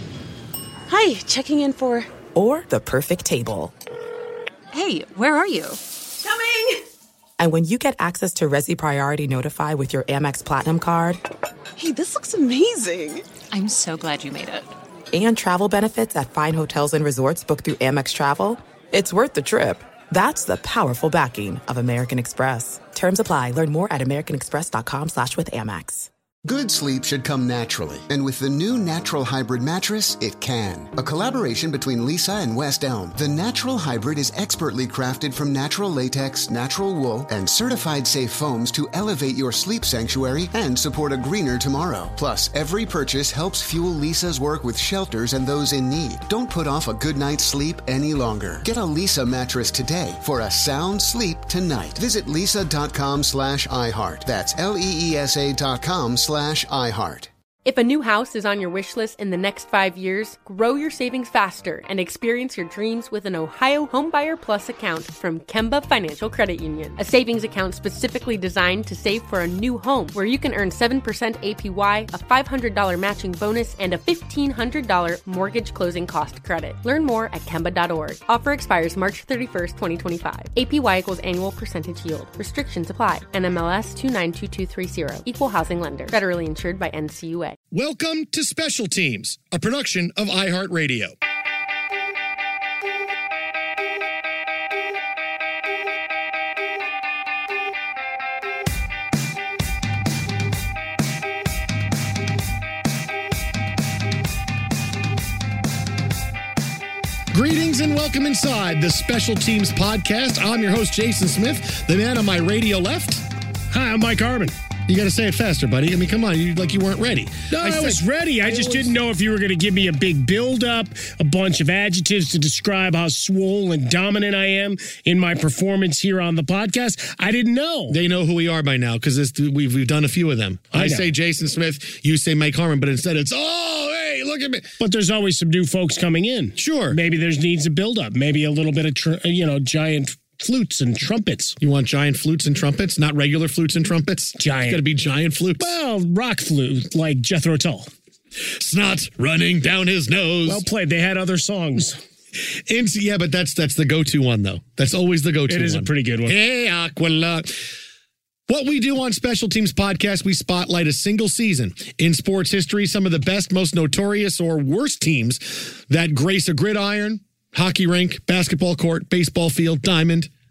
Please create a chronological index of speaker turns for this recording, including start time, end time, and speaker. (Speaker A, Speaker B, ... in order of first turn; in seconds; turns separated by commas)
Speaker A: 0.9-2.1, Speaker B: 2.3-3.7, Speaker C: 4.7-5.8, Speaker A: 6.2-6.8, Speaker B: 7.4-11.2, Speaker A: 11.8-13.3, Speaker C: 13.5-14.7, Speaker B: 15.1-26.1, Speaker D: 26.4-57.3, Speaker E: 57.6-87.5, Speaker F: 87.7-91.2, Speaker F: 107.3-113.2, Speaker G: 113.7-114.5, Speaker F: 114.9-118.9, Speaker G: 117.5-128.0, Speaker F: 127.9-134.7, Speaker G: 130.7-131.1, Speaker G: 134.8-141.6, Speaker F: 136.6-137.0, Speaker F: 141.6-145.7, Speaker G: 144.4-144.8, Speaker G: 145.6-147.9, Speaker F: 148.4-150.6, Speaker G: 150.4-152.0, Speaker F: 152.4-157.7, Speaker G: 155.5-156.3, Speaker F: 158.5-170.3